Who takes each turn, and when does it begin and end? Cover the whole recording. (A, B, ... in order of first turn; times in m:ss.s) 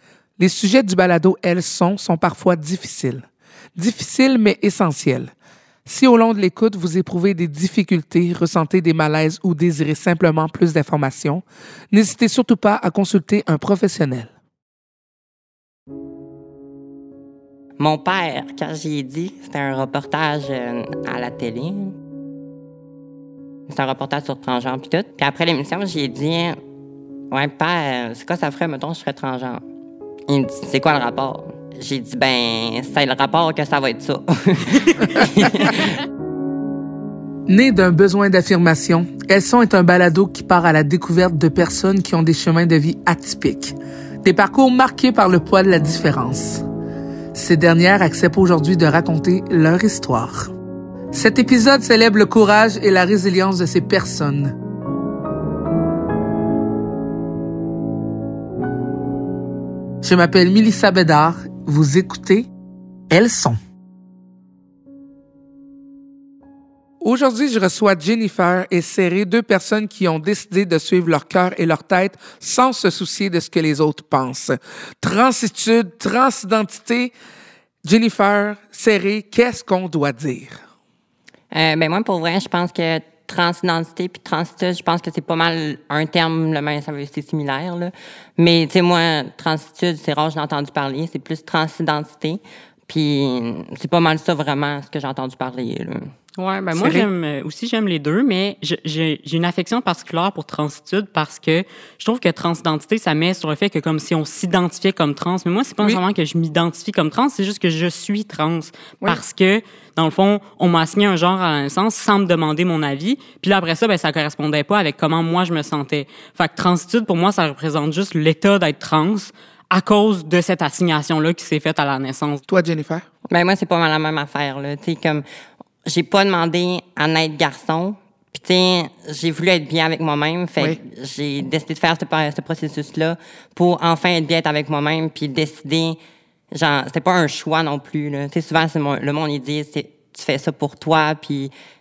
0:00.4-0:05.3 A
0:05.9-0:14.3 A
0:17.8-0:22.0 B
0:23.7-0:26.6 B
0:27.3-0:29.6 B
0:30.3-0:36.0 B
0:37.5-0:46.6 A
0:47.3-0:50.5 A
0:51.1-0:54.5 A
1:00.0-1:02.5 A
1:03.1-1:03.6 A
1:07.0-1:17.1 A
1:17.8-1:20.6 A
1:21.5-1:36.1 B
1:36.4-2:02.4 C
1:36.7-1:37.1 A
2:02.5-2:03.0 A
2:03.3-2:05.2 B
2:05.8-2:16.0 B
2:16.5-2:21.5 B